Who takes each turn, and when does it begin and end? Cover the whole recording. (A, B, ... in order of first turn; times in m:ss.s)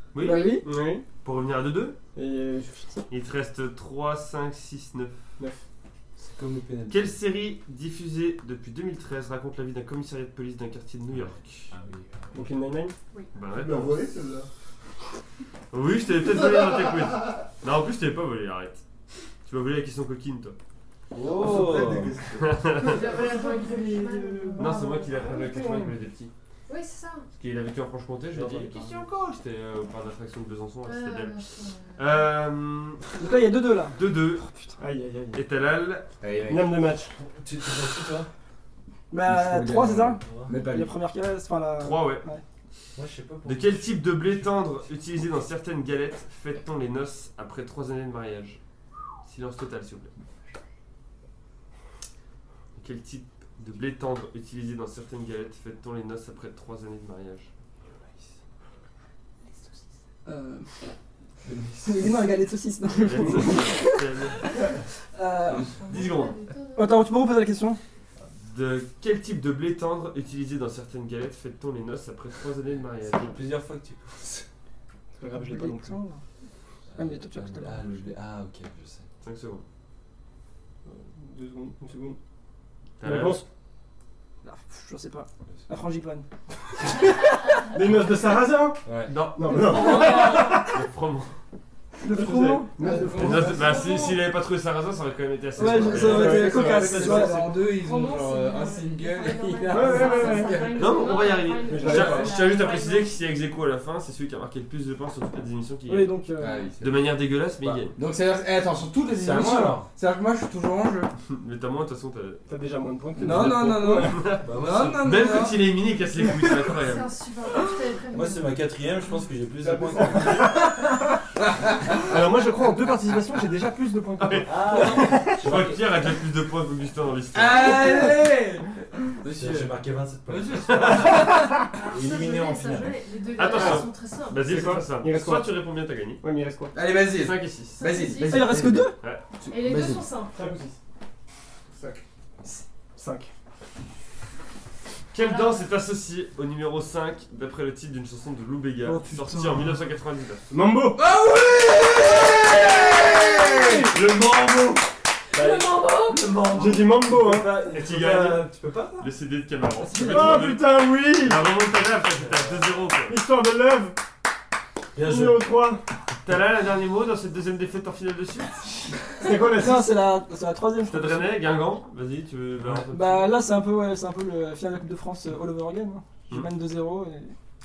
0:00.1-0:02.0 A
0:00.2-0:00.6 B
0:00.2-0:00.7 C
0:00.7-0:01.0 D
0:02.1-0:03.0 D
0:03.1-0:05.2 A
0:06.2-0:07.1 E
0:06.9-0:11.8 A
0:11.1-0:12.4 E
0:12.3-0:13.0 D
0:13.3-0:13.9 A
0:13.6-0:13.8 D
0:13.6-0:14.5 F
0:15.7-0:18.8 A
0:19.4-0:20.6 A
0:21.1-0:22.1 E
0:21.2-0:23.0 F
0:22.4-0:23.1 A
0:22.8-0:25.6 C
0:23.1-0:24.7 D
0:24.6-0:26.3 A
0:25.3-0:25.9 B
0:26.7-0:27.3 C
0:27.3-0:31.4 A
0:28.4-0:28.7 E
0:30.8-0:32.2 C
0:32.0-0:33.1 A
0:33.2-0:34.0 B
0:34.0-0:34.5 A
0:34.8-0:35.4 D
0:35.3-0:36.1 A
0:36.2-0:36.8 G
0:36.5-0:37.1 D
0:37.2-0:38.3 E
0:39.1-0:42.4 B
0:39.2-0:41.0 G
0:40.2-0:40.5 E
0:41.8-0:42.3 A
0:43.0-0:44.5 E
0:43.4-0:48.6 A
0:49.2-0:50.1 A
0:52.8-0:57.5 A
1:00.3-1:00.7 B
1:01.4-1:02.2 E
1:01.8-1:05.7 B
1:03.0-1:04.4 A
1:05.4-1:07.1 C
1:05.9-1:06.4 A
1:06.8-1:07.8 B
1:08.4-1:13.5 A
1:13.0-1:14.4 E
1:15.2-1:16.0 D
1:15.3-1:16.2 B
1:16.9-1:19.1 E
1:17.0-1:18.0 B
1:19.2-1:19.6 A
1:20.8-1:22.2 D
1:23.0-1:23.4 A
1:23.0-1:23.4 D
1:24.4-1:26.2 B
1:26.9-1:27.4 B
1:27.7-1:30.8 D
1:28.9-1:29.1 E
1:29.1-1:31.3 A
1:29.5-1:30.0 B
1:29.6-1:30.5 C
1:32.0-1:32.7 B
1:32.1-1:33.8 D
1:32.8-1:33.8 G
1:33.1-1:36.5 A
1:33.2-1:34.2 C
1:35.6-1:37.4 B
1:35.6-1:41.0 G
1:36.0-1:37.5 D
1:37.6-1:43.2 C
1:39.7-1:40.7 D
1:40.7-1:46.1 A
1:41.7-1:42.4 D
1:45.9-1:46.7 B
1:46.4-1:47.0 G
1:46.8-1:48.0 A
1:47.6-1:47.9 E
1:48.0-1:51.1 G
1:49.1-1:49.9 E
1:51.3-1:52.4 A
1:52.5-1:54.3 D
1:53.2-1:55.6 G
1:53.9-1:57.1 A
1:54.4-1:55.2 E
1:56.6-1:58.8 C
1:58.1-2:00.7 E
1:59.8-2:00.5 F
2:00.0-2:01.2 D
2:01.9-2:05.5 D
2:04.2-2:08.1 A
2:04.5-2:05.8 E
2:07.3-2:09.7 G
2:09.2-2:13.0 E
2:10.3-2:11.4 A
2:11.2-2:14.5 C
2:13.4-2:16.2 A
2:13.6-2:13.8 D
2:14.4-2:15.6 D
2:16.2-2:16.7 D
2:16.7-2:20.1 G
2:17.1-2:17.8 A
2:17.8-2:20.4 C
2:18.3-2:19.0 B
2:20.4-2:20.8 D
2:21.7-2:22.0 F
2:22.4-2:23.3 D
2:25.1-2:30.4 A
2:25.2-2:25.7 C
2:28.8-2:29.6 B
2:30.5-2:31.0 D
2:31.0-2:34.0 G
2:33.0-2:33.6 C
2:33.8-2:34.9 A
2:35.3-2:36.5 C
2:36.2-2:37.0 A
2:36.4-2:37.9 D
2:37.1-2:38.5 E
2:37.6-2:43.2 A
2:40.0-2:40.5 B
2:40.0-2:41.4 D
2:43.1-2:44.0 D
2:45.0-2:45.5 E
2:45.0-2:45.8 D
2:46.2-2:48.6 A
2:49.2-2:49.9 D
2:49.2-2:51.3 B
2:50.8-2:53.4 A
2:52.9-2:57.4 B